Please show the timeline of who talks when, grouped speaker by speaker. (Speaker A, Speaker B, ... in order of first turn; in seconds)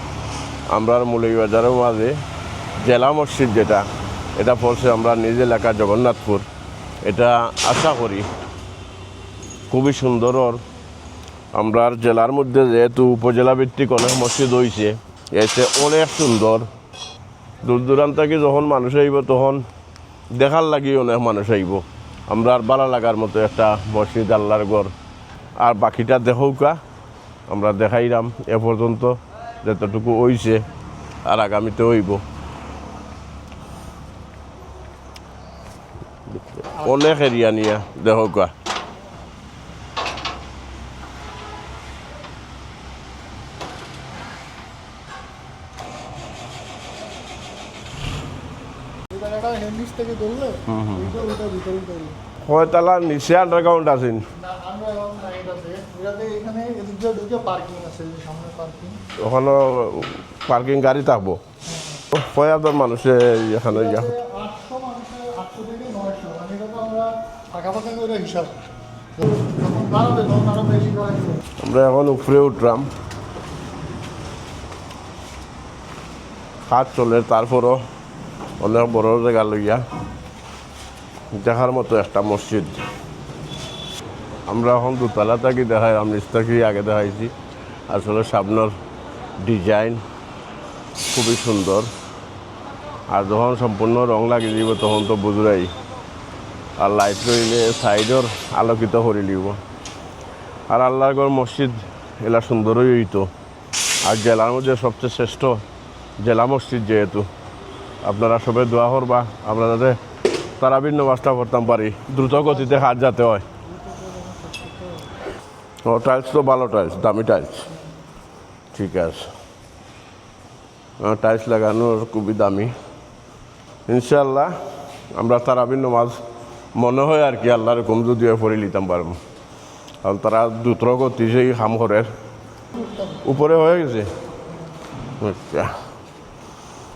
Speaker A: 0.7-2.2, 2.8-3.9, 4.4-6.4, 7.0-8.2, 9.7-10.6, 11.5-16.7, 17.6-19.6, 20.4-24.9, 25.6-26.8, 27.5-30.6, 31.2-32.2, 36.5-38.5, 50.7-51.0, 52.4-54.2, 59.2-61.4, 62.1-64.1, 71.6-72.9, 76.7-77.8, 78.6-79.8, 81.3-82.7, 84.5-87.3, 87.9-88.7, 89.4-90.0, 91.1-91.9, 93.1-95.7, 96.8-99.6, 100.7-103.3, 104.0-105.6, 106.2-107.3, 108.0-110.0, 110.6-113.5, 115.8-117.6, 118.7-119.3, 121.0-122.7, 123.9-124.5, 125.1-126.2, 126.7-129.2, 130.0-132.1, 133.2-134.1, 135.2-135.7
Speaker B: 49.1-52.2, 54.3-59.0, 63.6-68.6, 69.2-71.4, 112.2-115.1, 132.7-133.3